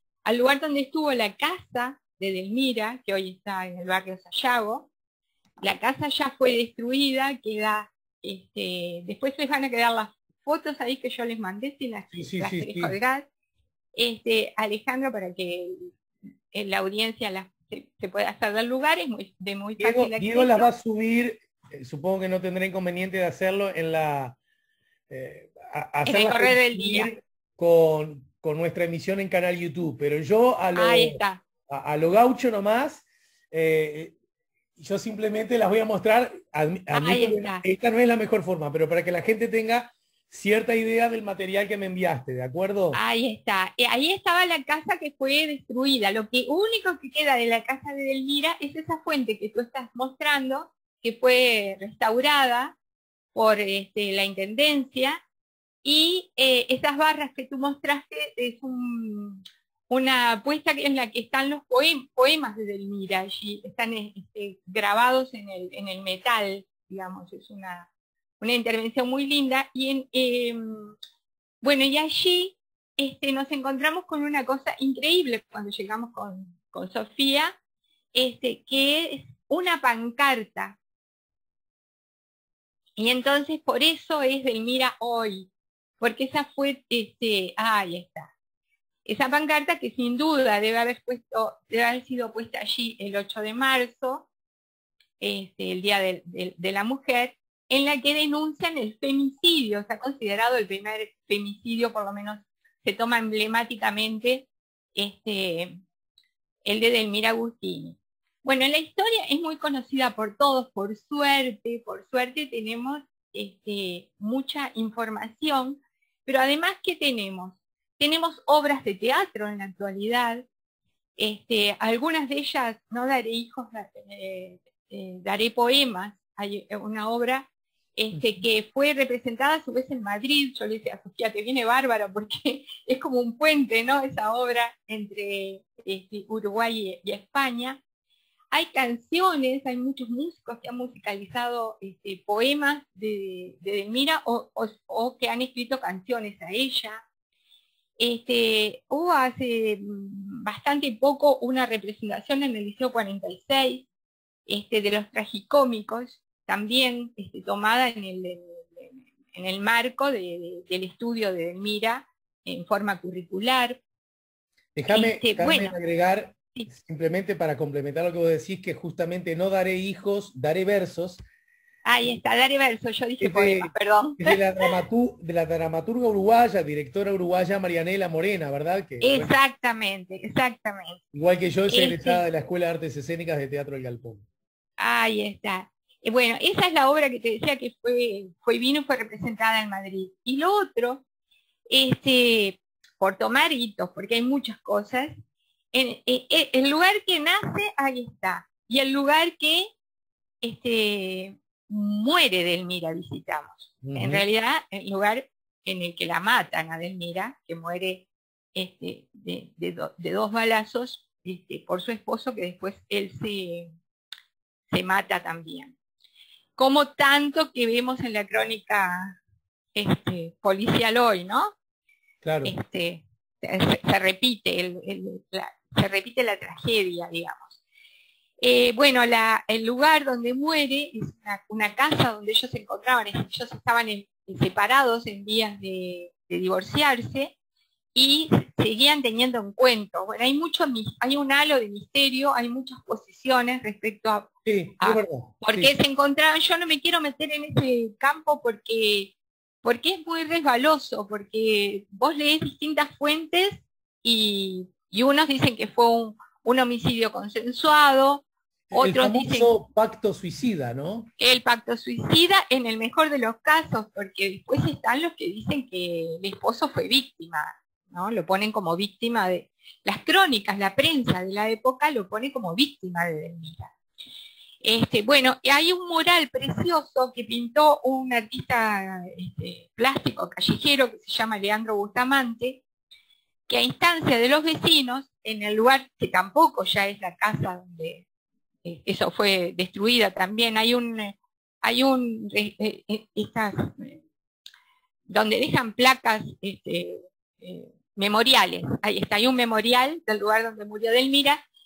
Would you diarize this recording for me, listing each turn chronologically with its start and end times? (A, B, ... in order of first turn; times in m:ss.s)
0:00.2-0:04.9 A
0:05.6-0:13.3 A
0:12.1-0:12.9 B
0:14.0-0:16.0 A
0:16.5-0:20.7 A
0:19.8-0:24.4 B
0:25.1-0:34.1 B
0:26.0-0:27.1 A
0:30.7-0:31.4 A
0:34.8-0:43.0 B
0:36.9-0:37.6 A
0:42.9-0:52.8 A
0:53.3-0:55.2 A
0:55.8-1:11.0 A
1:11.6-1:17.6 A
1:18.1-1:20.8 A
1:23.0-1:28.3 A
1:29.0-1:34.3 A
1:35.2-1:45.7 A
1:46.6-2:00.5 A
2:01.2-2:17.8 A
2:08.1-2:08.4 B
2:18.5-2:27.0 A
2:28.0-2:33.9 A
2:34.5-2:43.8 A
2:44.8-2:51.2 B
2:44.9-2:45.8 A
2:51.8-2:54.7 A
2:53.2-2:59.3 B
2:59.0-3:01.0 A
3:01.1-3:04.2 B
3:01.7-3:02.2 A
3:04.8-3:11.0 A
3:11.7-3:15.1 A
3:15.7-3:19.7 A
3:20.4-3:33.7 A
3:23.8-3:24.2 B
3:34.7-3:35.7 A
3:36.6-3:39.2 A
3:39.7-3:41.5 A
3:42.2-3:42.5 B
3:42.4-3:47.6 A
3:48.4-3:57.4 A
3:57.9-4:19.5 A
4:04.4-4:05.7 B
4:18.7-4:21.1 B
4:21.2-4:33.7 A
4:34.6-4:42.6 A
4:43.5-4:48.0 A
4:48.6-4:54.0 A
4:55.1-5:01.4 A